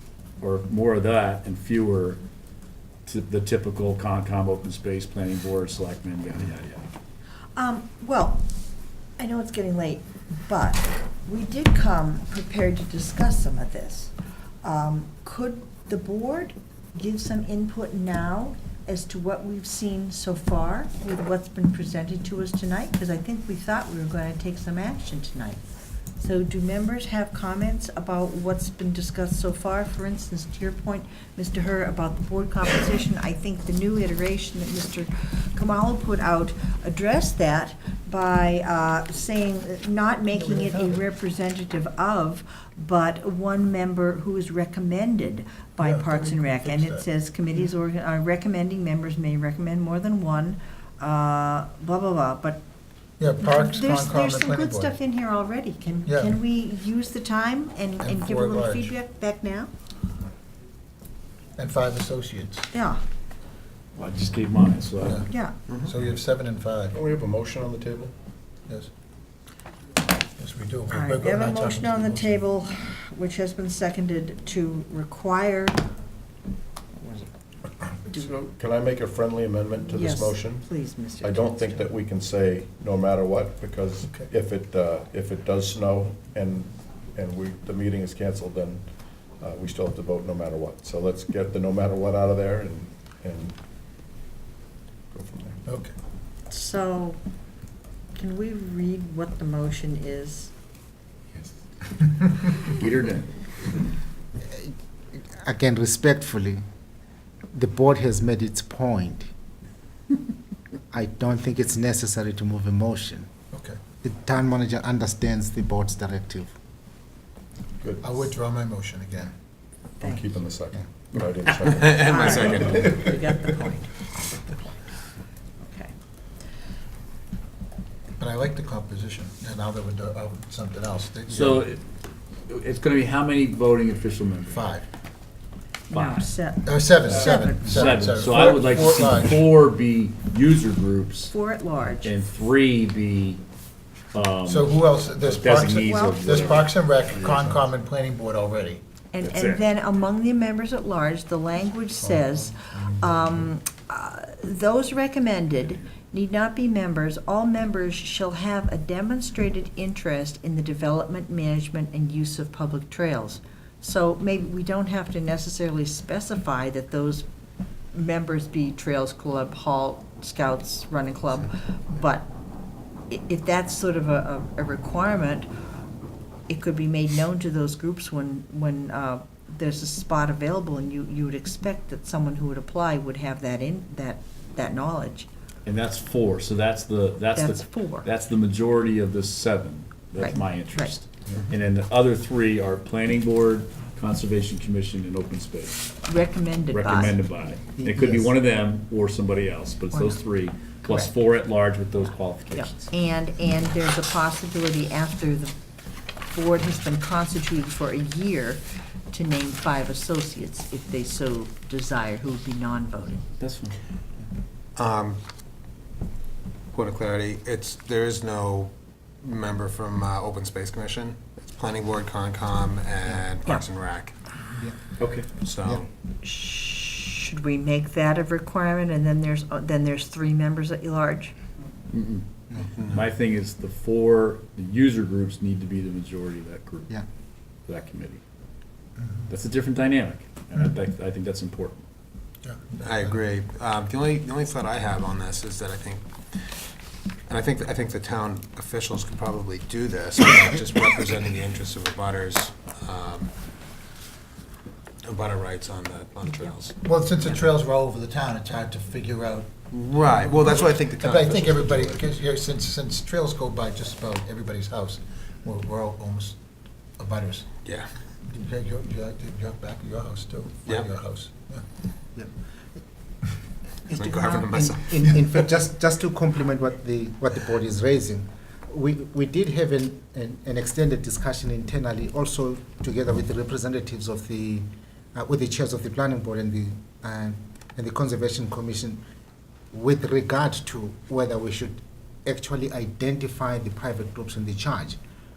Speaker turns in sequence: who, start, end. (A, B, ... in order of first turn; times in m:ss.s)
0:00.4-0:02.2 A
0:03.0-0:06.8 A
0:07.6-0:08.4 B
0:09.2-0:14.1 B
0:14.6-0:25.6 B
0:26.2-0:52.6 B
0:40.3-0:41.0 C
0:45.8-0:47.0 C
0:53.2-0:54.9 C
0:53.4-0:59.7 B
0:56.0-0:56.4 C
0:58.0-0:58.9 C
1:01.6-1:02.7 C
1:02.7-1:03.0 B
1:04.0-1:05.2 A
1:05.0-1:05.3 C
1:05.3-1:05.5 B
1:05.8-1:07.0 C
1:06.9-1:08.1 D
1:10.4-1:12.4 C
1:10.9-1:15.8 B
1:17.0-1:17.3 B
1:18.0-1:18.4 B
1:18.1-1:20.6 D
1:19.9-1:21.8 B
1:21.2-1:28.8 D
1:29.4-1:33.6 D
1:35.1-1:35.6 D
1:35.7-1:35.9 C
1:36.5-1:37.2 B
1:38.2-1:40.5 B
1:42.6-1:43.3 A
1:45.2-1:46.6 E
1:47.5-1:49.3 E
1:50.9-1:53.3 E
1:53.5-1:53.8 C
1:54.0-1:56.5 E
1:57.8-1:58.3 D
1:58.0-1:59.3 C
2:00.0-2:00.3 B
2:00.0-2:03.5 D
2:01.6-2:03.2 F
2:02.0-2:04.1 B
2:05.6-2:05.9 B
2:08.2-2:11.6 C
2:11.3-2:11.8 A
2:12.5-2:14.6 A
2:14.5-2:14.8 C
2:15.9-2:18.3 B
2:15.9-2:16.3 A
2:16.6-2:19.4 C
2:17.1-2:21.3 A
2:21.3-2:22.1 B
2:22.0-2:23.4 A
2:24.1-2:26.7 A
2:24.5-2:28.8 C
2:25.7-2:26.6 B
2:29.1-2:47.2 B
2:29.2-2:29.6 A
2:32.0-2:33.5 C
2:47.9-2:52.3 B
2:53.1-2:55.5 B
2:56.5-3:05.3 B
3:05.6-3:16.0 A
3:07.4-3:08.1 B
3:10.2-3:10.9 B
3:16.0-3:17.1 B
3:16.7-3:22.9 A
3:17.8-3:18.3 E
3:19.9-3:20.2 B
3:20.8-3:21.1 B
3:22.5-3:25.5 B
3:26.3-3:33.2 B
3:33.4-3:33.8 A
3:34.7-3:35.2 F
3:36.7-3:44.2 F
3:44.4-3:45.0 E
3:45.0-3:45.3 A
3:45.3-3:45.9 F
3:45.6-3:45.8 E
3:46.2-3:51.3 B
3:51.9-3:52.2 A
3:52.6-3:53.0 F
3:52.9-3:56.9 A
3:57.7-3:58.2 A
3:59.0-3:59.3 C
3:59.3-4:01.8 A
4:02.4-4:03.2 C
4:02.8-4:06.7 F
4:07.3-4:13.3 F
4:15.0-4:16.8 F
4:16.8-4:26.4 C
4:19.7-4:22.2 F
4:27.0-4:27.5 C
4:27.6-4:27.9 F
4:28.2-4:31.6 C
4:30.6-4:31.0 F
4:33.9-4:35.2 F
4:33.9-4:49.0 E
4:49.7-4:55.0 E